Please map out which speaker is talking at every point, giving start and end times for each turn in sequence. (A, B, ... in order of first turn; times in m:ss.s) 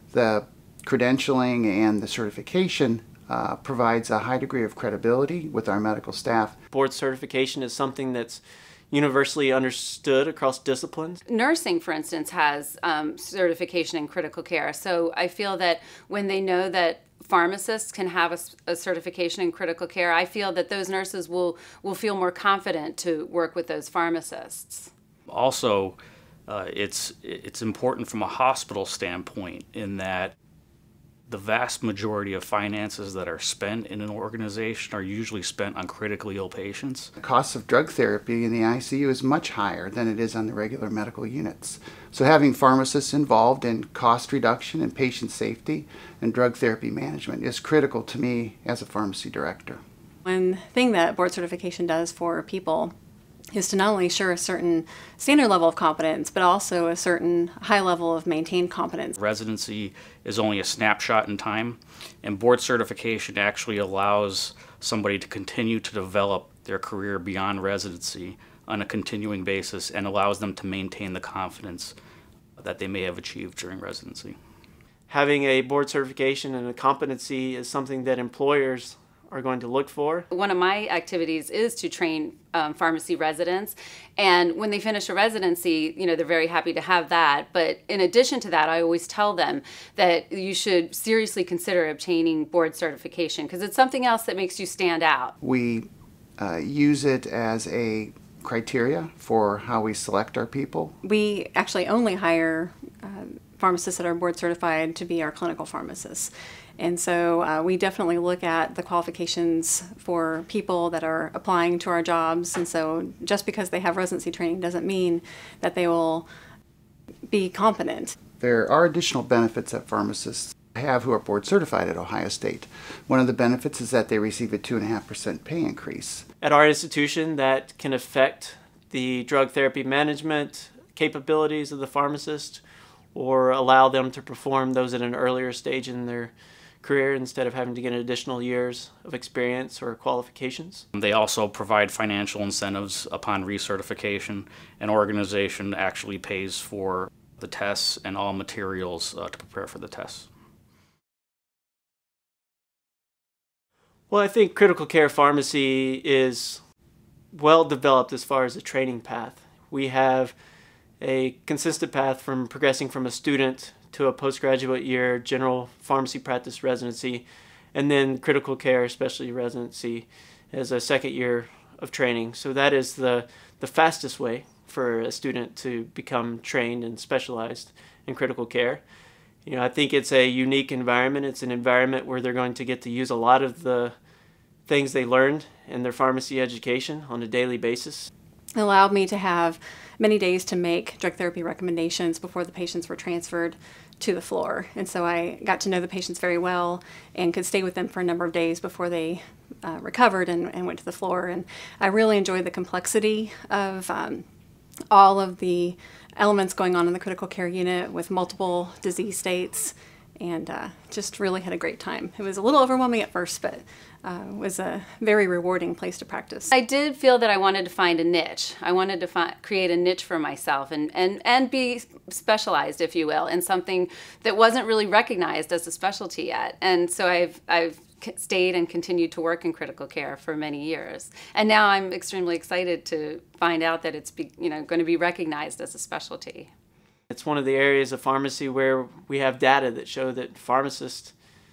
0:00.1-0:06.5 A
0:06.7-0:11.2 B
0:11.2-0:24.9 C
0:25.3-0:30.3 D
0:31.3-0:37.1 D
0:37.2-0:49.8 A
0:50.2-0:52.9 E
0:53.5-0:59.2 E
0:59.2-1:11.9 D
1:12.6-1:14.4 D
1:15.1-1:20.3 B
1:20.3-1:35.3 C
1:35.4-1:35.9 A
1:36.4-1:41.0 A
1:41.0-1:56.3 E
1:57.3-1:58.2 E
1:58.4-2:06.2 A
2:06.4-2:12.6 B
2:13.1-2:20.8 B
2:20.9-2:30.3 D
2:34.1-2:36.6 B
2:37.3-2:40.4 B
2:41.0-2:58.8 B
2:59.4-3:03.9 B
3:04.7-3:08.1 B
3:08.6-3:24.2 E
3:24.9-3:36.5 E
3:36.5-3:56.5 C
3:57.1-4:01.1 B